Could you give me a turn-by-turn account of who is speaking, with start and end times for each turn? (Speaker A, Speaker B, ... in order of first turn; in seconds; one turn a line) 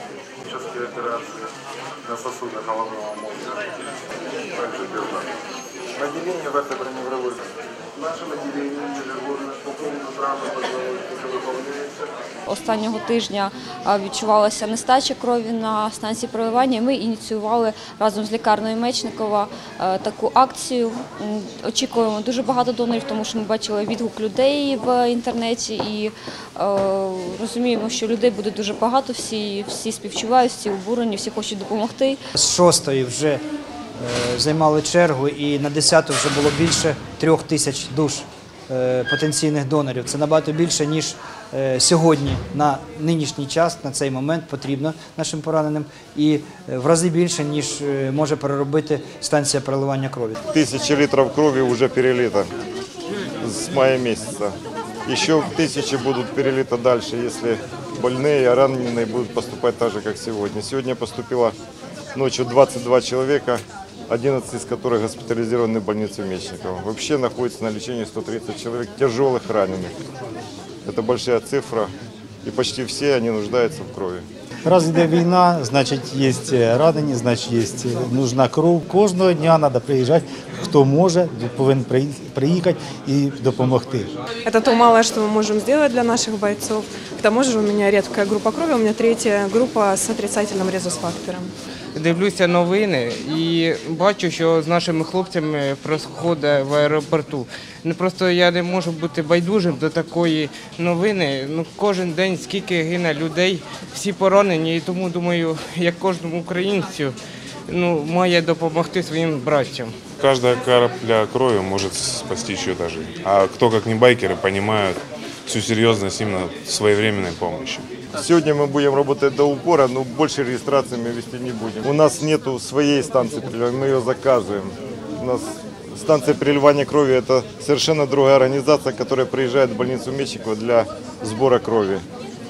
Speaker A: 6.1-6.6
Speaker A: 8.0-8.5
Speaker A: 9.7-10.2
Speaker A: 11.5-11.8
Speaker B: 12.5-32.2
Speaker C: 32.4-33.4
Speaker C: 34.0-50.4
Speaker D: 50.5-52.5
Speaker D: 53.4-61.6
Speaker D: 62.1-70.0
Speaker D: 70.8-71.9
Speaker D: 72.4-74.3
Speaker E: 74.7-84.1
Speaker F: 84.5-91.5
Speaker G: 92.0-107.2
Speaker G: 107.7-109.9
Speaker H: 110.2-117.9
Speaker D: 118.2-132.0